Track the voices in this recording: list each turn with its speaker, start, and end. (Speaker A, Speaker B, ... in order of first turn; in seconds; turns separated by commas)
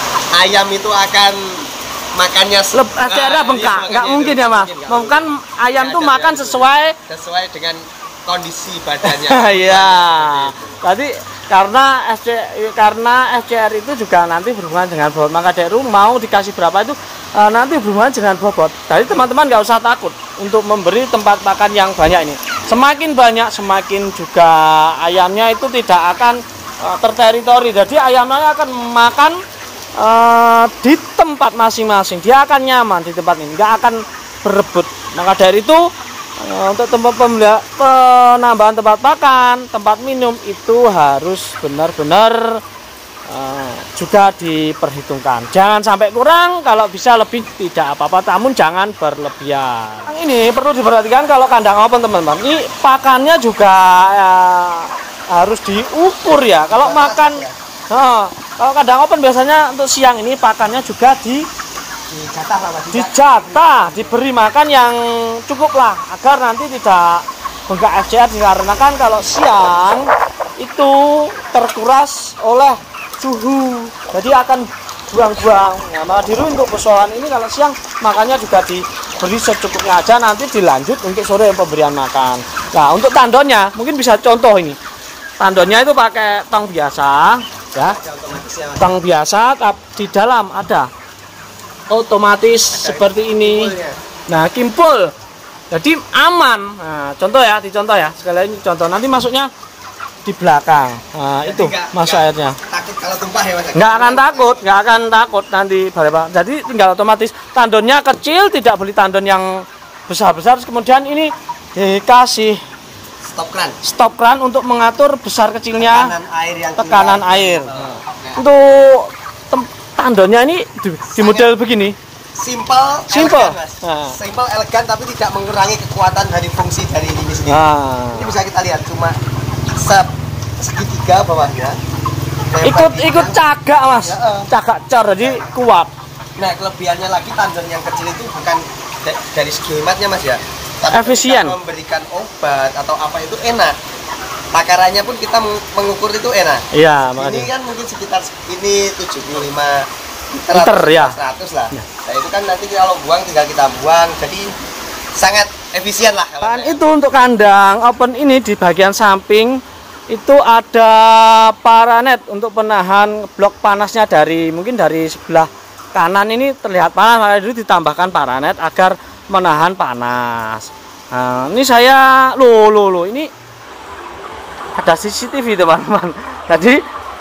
Speaker A: 0.3-10.8, Speaker B: 2.7-7.0, Speaker B: 9.0-29.4, Speaker B: 30.0-42.6, Speaker B: 43.3-61.5, Speaker A: 56.7-57.5, Speaker A: 62.1-64.2, Speaker B: 62.9-84.8, Speaker B: 85.4-88.0, Speaker A: 87.8-89.0, Speaker B: 88.8-90.9, Speaker B: 91.9-93.7, Speaker A: 92.7-94.0, Speaker B: 94.3-95.1, Speaker B: 95.7-99.5, Speaker B: 100.3-102.6, Speaker A: 101.5-104.6, Speaker B: 103.8-112.6, Speaker A: 113.2-113.8, Speaker B: 113.8-116.1, Speaker A: 115.8-118.4, Speaker B: 116.8-122.0, Speaker A: 121.1-121.5, Speaker A: 122.3-127.6, Speaker B: 123.1-124.2, Speaker B: 127.5-128.3, Speaker A: 128.1-129.2, Speaker A: 129.7-131.8, Speaker A: 132.5-133.4, Speaker B: 132.6-135.9, Speaker A: 133.9-134.5, Speaker A: 135.2-135.5, Speaker A: 136.4-143.8, Speaker B: 140.9-141.6, Speaker A: 144.5-154.5, Speaker B: 146.7-147.5, Speaker B: 150.5-151.2, Speaker A: 155.2-156.9, Speaker B: 156.4-159.6, Speaker B: 160.1-173.3, Speaker B: 174.8-176.8